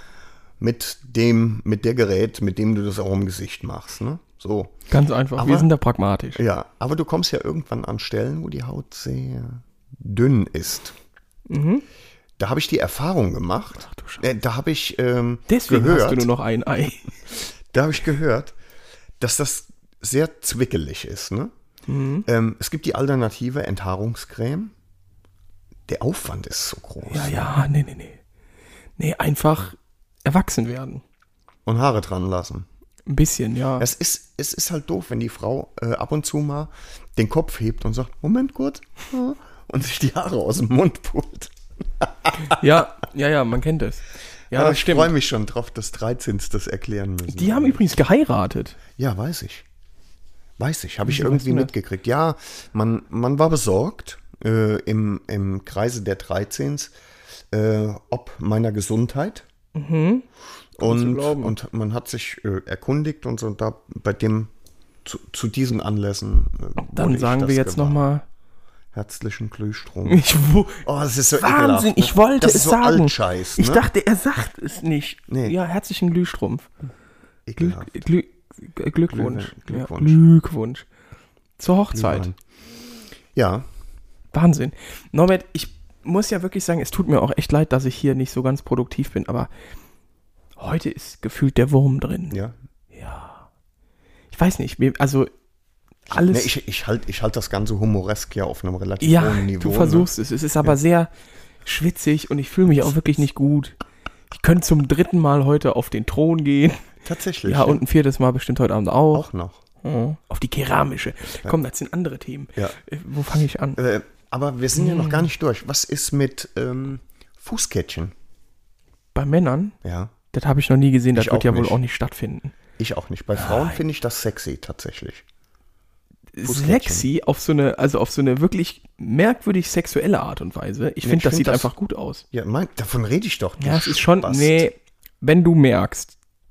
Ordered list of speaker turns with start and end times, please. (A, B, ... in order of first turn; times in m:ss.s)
0:00.6-0:04.8 A
0:04.9-0:06.4 B
0:05.4-0:05.7 A
0:06.4-0:10.9 A
0:11.5-0:11.8 B
0:12.4-0:16.3 A
0:13.8-0:14.2 B
0:15.5-0:17.2 B
0:17.7-0:18.6 A
0:19.2-0:21.5 A
0:21.9-0:22.3 B
0:22.2-0:24.7 A
0:25.9-0:27.5 A
0:27.1-0:28.2 B
0:29.0-0:31.0 B
0:31.6-0:32.6 A
0:33.1-0:33.9 B
0:33.8-0:42.6 A
0:42.4-0:45.1 B
0:44.5-0:47.8 A
0:47.3-0:48.8 B
0:49.0-0:49.6 A
0:50.6-0:56.9 A
0:51.0-0:51.7 B
0:57.5-0:59.4 A
0:59.7-1:00.3 B
1:00.8-1:04.5 A
1:00.8-1:01.5 B
1:05.0-1:08.0 A
1:06.8-1:08.2 B
1:08.9-1:10.2 A
1:10.0-1:10.8 B
1:10.8-1:13.8 A
1:11.4-1:16.7 B
1:15.3-1:15.6 A
1:17.4-1:18.0 A
1:17.6-1:20.8 B
1:19.1-1:20.2 A
1:21.6-1:22.3 B
1:21.9-1:22.4 A
1:23.3-1:23.7 A
1:24.3-1:29.5 B
1:30.6-1:32.4 B
1:32.3-1:32.6 A
1:32.9-1:33.4 B
1:34.3-1:35.3 B
1:36.1-1:36.5 B
1:36.2-1:40.1 A
1:39.0-1:41.1 B
1:41.6-1:43.8 B
1:44.3-1:46.8 B
1:47.0-1:47.8 A
1:47.4-1:49.2 B
1:49.1-1:49.6 A
1:49.8-1:53.8 B
1:53.8-1:58.1 A
1:54.7-1:55.3 B
1:59.1-1:59.8 B
1:59.8-2:00.1 A
2:00.3-2:02.5 B
2:01.1-2:01.8 A
2:02.8-2:05.2 A
2:03.4-2:03.8 B
2:06.4-2:12.2 B
2:06.4-2:07.1 A
2:11.0-2:11.7 A
2:12.3-2:14.7 A
2:13.6-2:16.2 B